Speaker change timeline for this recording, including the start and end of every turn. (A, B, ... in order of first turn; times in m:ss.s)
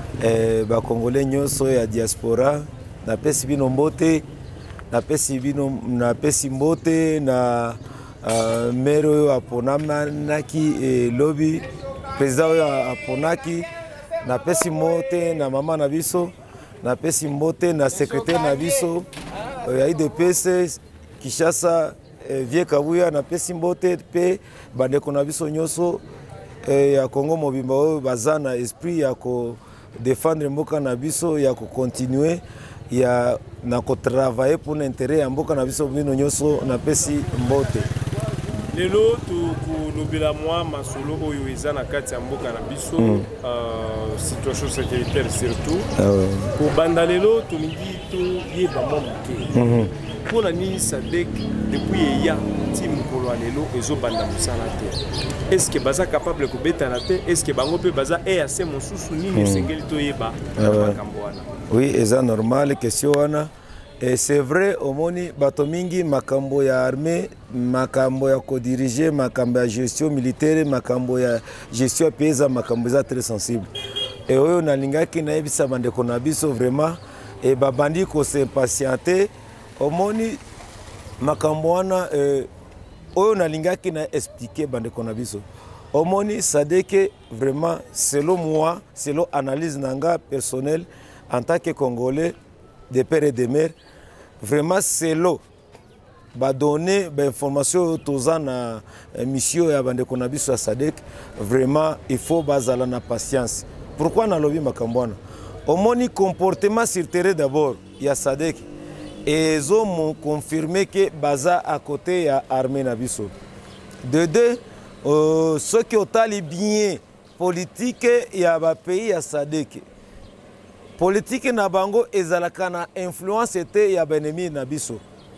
0:00.2-0:04.2 A
0:04.9-0:11.6 A
0:12.2-0:13.7 A
0:14.2-0:19.1 A
0:19.6-0:26.0 A
0:26.6-0:37.9 A
0:38.7-0:45.9 B
0:43.0-0:43.3 A
0:46.0-0:46.5 A
0:46.5-0:49.5 B
0:49.5-0:49.9 A
0:50.2-0:55.0 B
0:55.5-1:01.5 B
0:59.3-0:59.7 A
1:00.6-1:01.0 A
1:01.7-1:13.7 A
1:14.3-1:20.4 A
1:21.2-1:22.5 A
1:23.1-1:32.3 A
1:32.9-1:33.7 A
1:34.4-1:35.4 A
1:36.3-1:48.7 A
1:49.2-1:53.3 A
1:54.0-1:59.8 A
2:01.0-2:05.0 A